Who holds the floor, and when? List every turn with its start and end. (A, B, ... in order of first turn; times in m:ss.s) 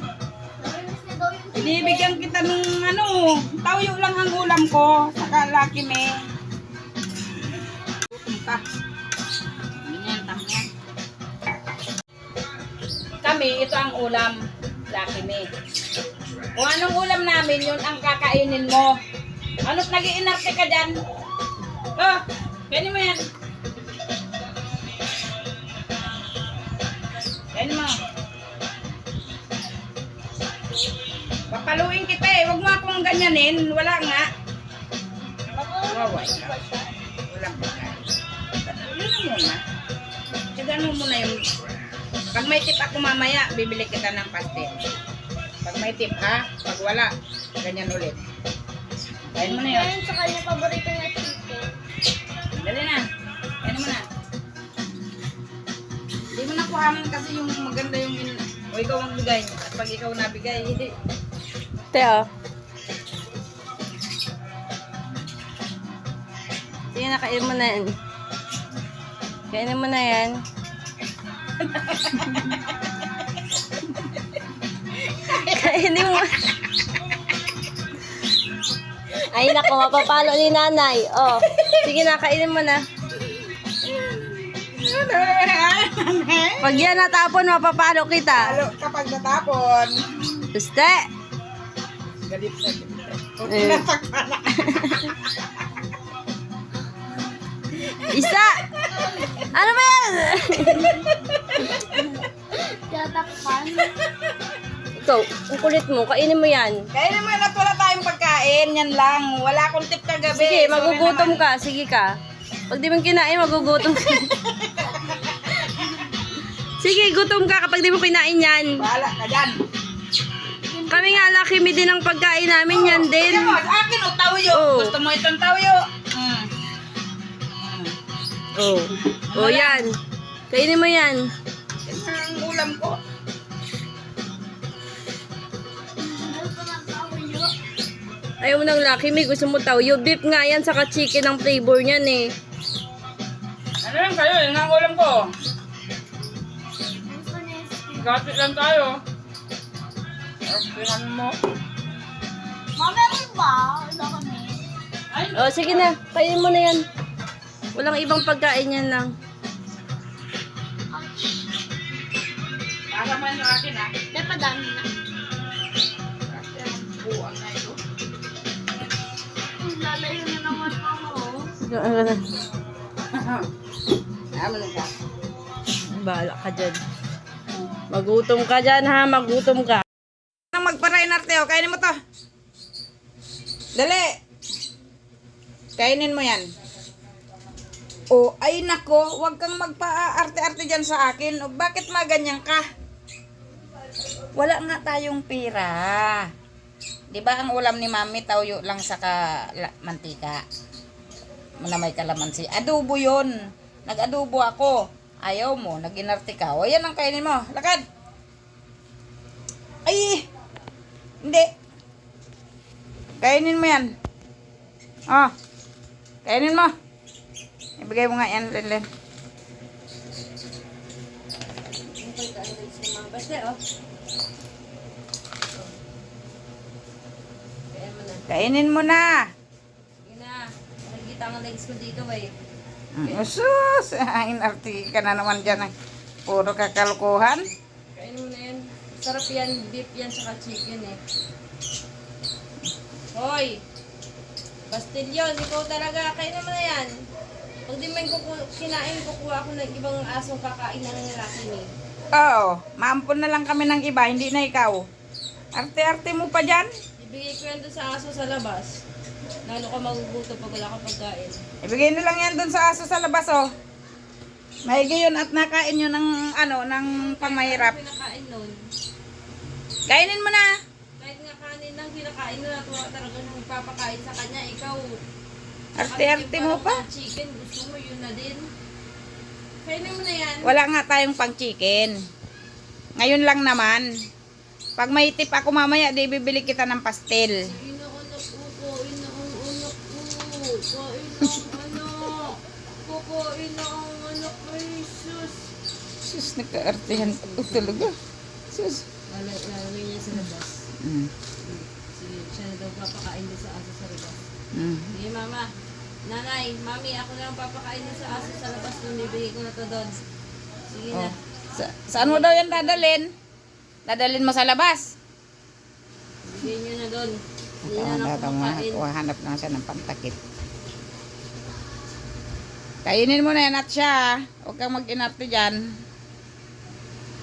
0:00.6-0:02.4 A
0:01.6-0:06.1 B
0:08.1-0:08.6 B
0:09.8-0:10.7 B
0:13.2-0:14.4 B
0:14.9-0:15.4 B
0:16.6-0:18.9 B
0:19.6-0:21.0 B
0:22.0-0:23.2 B
0:27.5-0:27.9 B
0:31.5-0:34.2 B
0:35.5-0:36.9 A
0:35.9-0:36.6 B
0:37.3-0:38.1 B
0:38.6-0:39.6 B
0:40.5-0:41.4 B
0:42.3-0:44.8 B
0:45.6-0:47.1 B
0:47.6-0:48.2 B
0:49.3-0:49.9 B
0:49.5-0:51.7 A
0:52.6-0:53.0 B
0:53.6-0:54.0 B
0:56.3-1:00.9 B
1:01.9-1:02.3 C
1:06.9-1:08.0 C
1:09.5-1:10.4 C
1:11.6-1:12.5 B
1:15.3-1:16.4 C
1:19.3-1:22.8 C
1:21.5-1:21.8 B
1:23.8-1:26.8 B
1:26.6-1:28.6 C
1:28.3-1:29.9 B
1:30.5-1:31.1 C
1:32.3-1:34.6 B
1:33.5-1:33.9 C
1:34.6-1:35.1 C
1:38.0-1:39.4 B
1:38.1-1:38.6 C
1:39.4-1:41.0 C
1:40.8-1:42.2 B
1:42.5-1:44.0 A
1:45.0-1:46.8 C
1:46.9-1:51.5 B
1:50.3-1:52.2 C
1:52.7-1:54.4 C
1:53.8-1:55.9 B
1:56.8-1:58.9 C
1:58.8-1:59.6 B
2:00.6-2:01.3 A
2:00.9-2:03.6 C
2:02.7-2:06.5 B
2:04.5-2:05.0 C
2:07.6-2:07.9 B
2:08.6-2:10.0 C
2:09.3-2:09.9 B
2:10.5-2:11.3 C
2:11.8-2:13.0 B
2:16.0-2:17.5 A
2:18.4-2:22.3 C
2:23.8-2:25.3 B
2:27.0-2:28.1 A
2:27.9-2:29.0 B
2:30.4-2:31.4 B
2:32.8-2:34.6 A
2:35.1-2:35.9 B
2:35.3-2:36.8 C
2:37.7-2:39.1 C
2:40.9-2:41.3 A
2:42.9-2:43.9 B
2:44.1-2:44.9 A
2:46.3-2:47.8 B
2:49.6-2:51.5 A
2:51.6-2:52.3 C
2:53.1-2:53.5 B
2:54.3-2:54.9 B
2:55.9-2:56.8 C
2:57.9-2:59.8 C
3:00.5-3:02.0 B
3:03.8-3:04.1 B
3:05.8-3:06.4 B
3:08.1-3:12.6 B
3:14.4-3:16.3 B
3:17.1-3:20.4 B
3:21.6-3:23.3 B
3:23.8-3:27.8 B
3:29.9-3:30.3 B
3:31.2-3:31.5 B
3:33.2-3:33.9 B
3:36.2-3:36.7 B
3:37.8-3:38.9 B
3:41.6-3:43.6 C
3:47.7-3:48.4 C
3:48.3-3:49.3 B
3:50.0-3:52.3 C
3:53.0-3:55.7 B
3:53.0-3:53.3 C
3:56.3-3:57.5 B
3:57.9-4:01.0 C
4:03.1-4:03.6 C
4:04.7-4:06.9 C
4:07.7-4:11.7 C
4:12.1-4:14.8 B
4:15.6-4:16.7 B
4:17.0-4:18.8 C
4:19.4-4:21.4 C
4:21.6-4:23.4 B
4:24.7-4:27.8 B
4:26.8-4:28.6 C
4:29.9-4:30.5 B
4:31.0-4:35.0 C
4:35.8-4:36.8 B
4:35.8-4:38.5 C
4:39.6-4:40.5 C
4:40.4-4:42.0 B
4:43.0-4:43.8 B
4:44.8-4:47.4 B
4:47.4-4:55.4 C
4:56.0-4:57.9 B
4:56.9-4:57.9 C
4:58.5-4:58.8 B
4:59.1-5:00.6 C
5:00.8-5:01.1 B
5:01.4-5:04.2 C
5:04.6-5:04.9 B
5:04.9-5:05.5 C
5:06.1-5:10.0 C
5:10.7-5:11.2 C
5:10.9-5:13.1 B
5:11.9-5:12.9 C
5:13.9-5:14.9 B
5:16.2-5:18.8 C
5:17.7-5:20.2 B
5:22.8-5:25.6 B